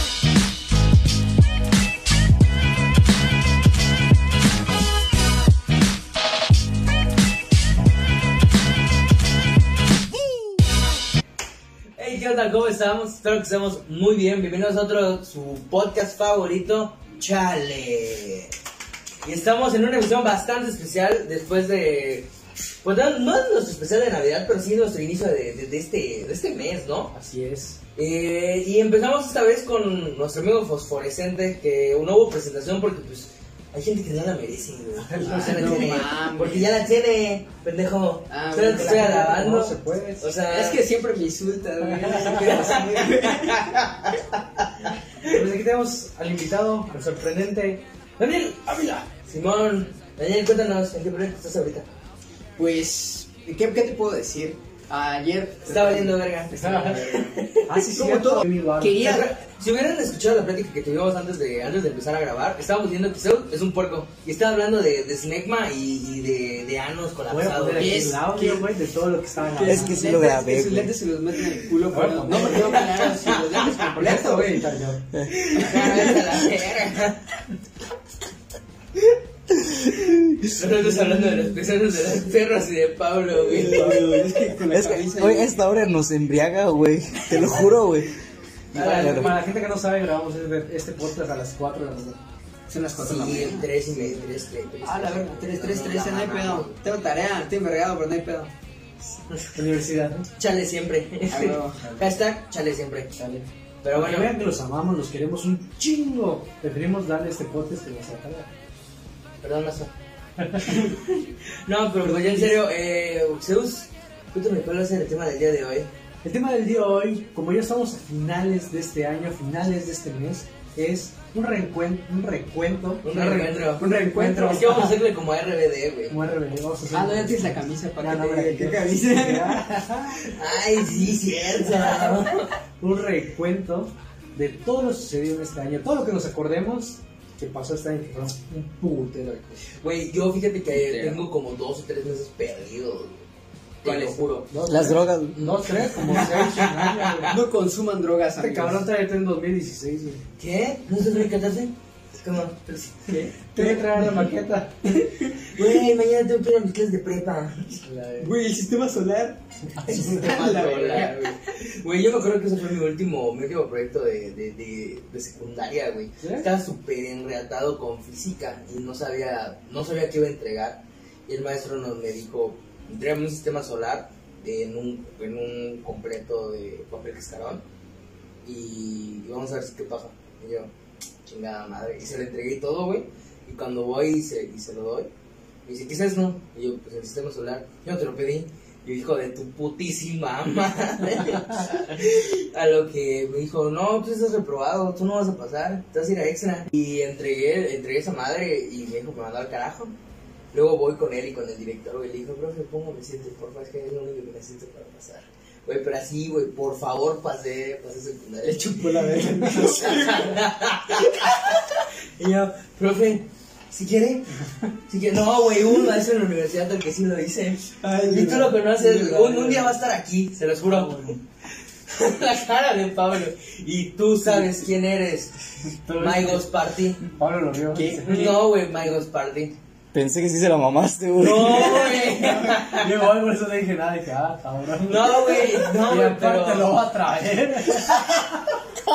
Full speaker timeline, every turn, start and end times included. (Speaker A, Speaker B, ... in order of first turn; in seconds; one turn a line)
Speaker A: 12.0-18.5
Speaker A: 19.2-22.3
Speaker A: 22.8-27.1
Speaker B: 27.1-27.8
Speaker A: 28.0-40.9
Speaker B: 35.0-36.0
Speaker C: 35.2-36.8
Speaker C: 38.3-39.5
Speaker B: 38.7-40.3
Speaker C: 40.5-43.9
Speaker A: 42.2-45.5
Speaker B: 45.2-47.8
Speaker A: 48.2-51.9
Speaker C: 52.6-59.3
Speaker A: 55.7-57.7
Speaker B: 56.6-57.0
Speaker B: 57.7-59.1
Speaker A: 59.0-68.2
Speaker B: 67.3-70.0
Speaker C: 67.8-68.7
Speaker C: 69.4-74.7
Speaker D: 69.6-70.9
Speaker B: 71.9-72.8
Speaker A: 72.4-73.8
Speaker B: 73.8-75.0
Speaker D: 75.1-76.4
Speaker A: 75.3-77.4
Speaker C: 75.5-76.6
Speaker D: 79.5-81.4
Speaker A: 80.5-84.2
Speaker C: 83.5-85.6
Speaker D: 83.5-88.2
Speaker C: 87.3-87.7
Speaker D: 88.7-89.3
Speaker A: 88.7-89.4
Speaker C: 88.8-89.1
Speaker B: 88.8-92.2
Speaker C: 92.7-94.2
Speaker A: 93.0-96.8
Speaker C: 94.8-98.5
Speaker A: 99.1-99.7
Speaker B: 99.5-100.3
Speaker A: 100.4-103.2
Speaker C: 101.3-102.1
Speaker B: 103.2-108.5
Speaker A: 103.8-104.3
Speaker A: 109.4-109.9
Speaker B: 110.4-110.8
Speaker A: 110.7-115.9
Speaker B: 112.0-112.6
Speaker B: 116.2-124.9
Speaker A: 123.0-126.2
Speaker C: 123.8-124.7
Speaker B: 126.1-130.3
Speaker C: 126.9-129.7
Speaker A: 130.3-132.5
Speaker B: 132.8-139.7
Speaker A: 139.8-143.3
Speaker C: 140.7-141.2
Speaker A: 143.8-144.5
Speaker C: 143.8-144.2
Speaker B: 144.5-147.3
Speaker D: 144.7-145.4
Speaker A: 145.3-147.4
Speaker C: 147.3-148.9
Speaker B: 148.4-150.2
Speaker A: 150.4-153.2
Speaker C: 153.1-155.8
Speaker B: 153.6-154.9
Speaker A: 155.5-158.0
Speaker B: 157.9-158.3
Speaker C: 158.2-161.4
Speaker B: 159.8-160.2
Speaker A: 159.8-177.6
Speaker B: 166.2-166.5
Speaker A: 178.4-180.7
Speaker A: 181.2-185.1
Speaker A: 185.7-199.9
Speaker A: 200.5-214.3
Speaker C: 208.4-210.4
Speaker A: 214.9-221.2
Speaker C: 217.8-218.6
Speaker B: 218.1-219.8
Speaker B: 220.6-221.2
Speaker A: 221.9-227.0
Speaker B: 225.7-226.5
Speaker B: 227.1-228.4
Speaker C: 227.7-228.2
Speaker A: 228.0-229.6
Speaker D: 229.9-231.8
Speaker A: 231.2-233.0
Speaker C: 231.4-232.6
Speaker B: 231.4-238.5
Speaker A: 234.8-236.8